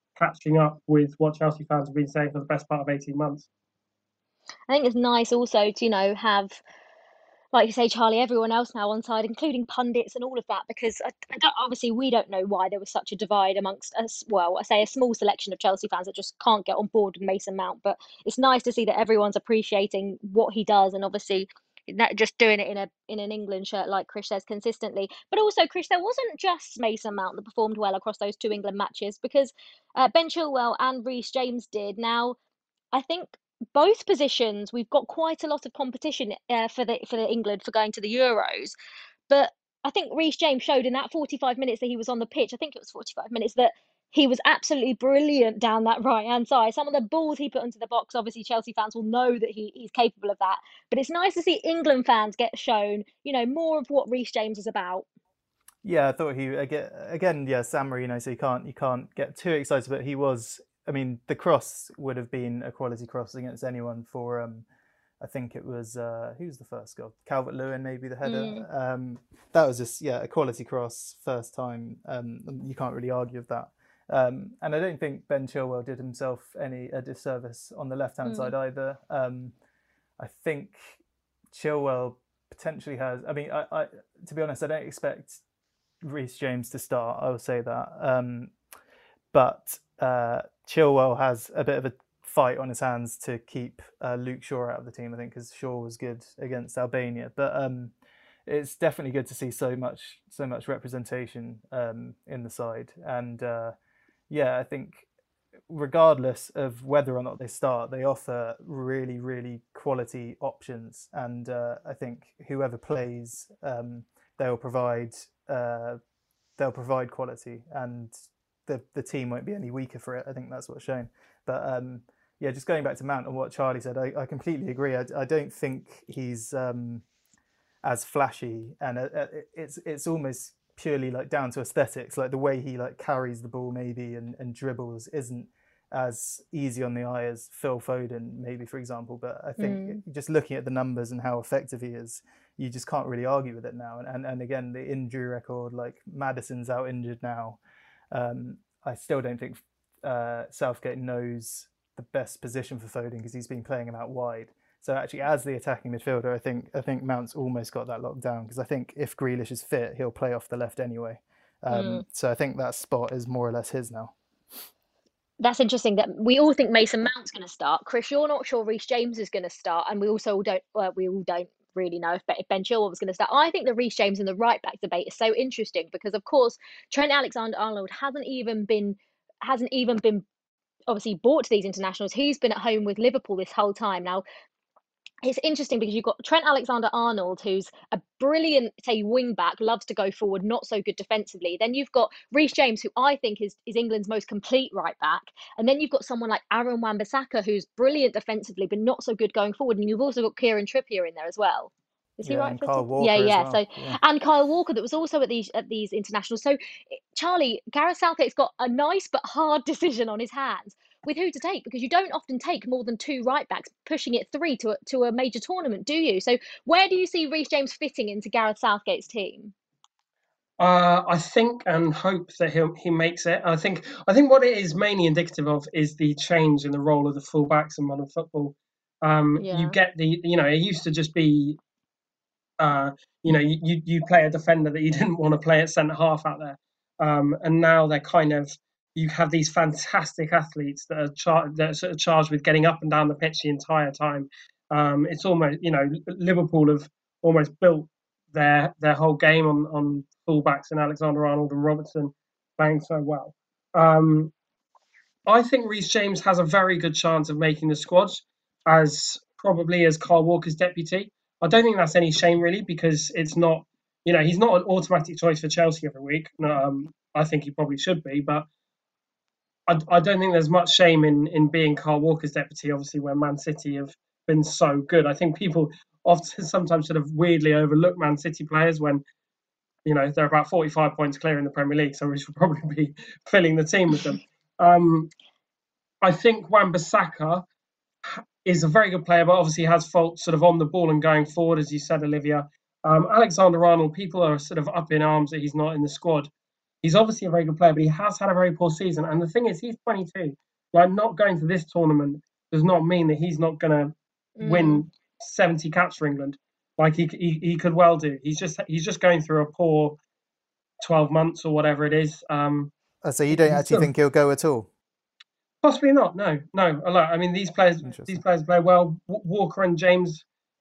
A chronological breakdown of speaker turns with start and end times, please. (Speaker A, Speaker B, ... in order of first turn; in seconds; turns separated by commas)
Speaker A: 0.2-3.5, Speaker B: 4.7-6.6, Speaker B: 7.5-32.4, Speaker B: 32.9-38.8, Speaker B: 39.3-55.1, Speaker C: 55.8-64.7, Speaker C: 65.2-79.5, Speaker B: 68.2-68.7, Speaker B: 78.2-78.5, Speaker C: 80.2-81.0, Speaker C: 81.5-85.4, Speaker C: 86.0-88.5, Speaker C: 89.3-97.9, Speaker C: 98.5-103.8, Speaker C: 104.3-105.1, Speaker C: 105.7-116.0, Speaker C: 116.6-127.0, Speaker C: 127.8-147.6, Speaker B: 139.6-140.0, Speaker C: 148.1-164.1, Speaker B: 161.7-162.1, Speaker B: 165.4-180.2, Speaker B: 180.9-184.2, Speaker B: 185.2-219.5, Speaker C: 202.2-204.0, Speaker A: 220.6-231.6, Speaker B: 229.4-229.8, Speaker A: 232.6-254.3, Speaker A: 255.3-268.5, Speaker A: 269.7-279.0, Speaker A: 279.9-285.1, Speaker A: 286.0-287.4, Speaker A: 288.1-296.3, Speaker A: 296.8-310.0, Speaker B: 304.4-304.9, Speaker A: 310.8-312.7, Speaker C: 313.0-314.7, Speaker A: 313.3-313.9, Speaker A: 315.6-320.2, Speaker C: 317.8-318.2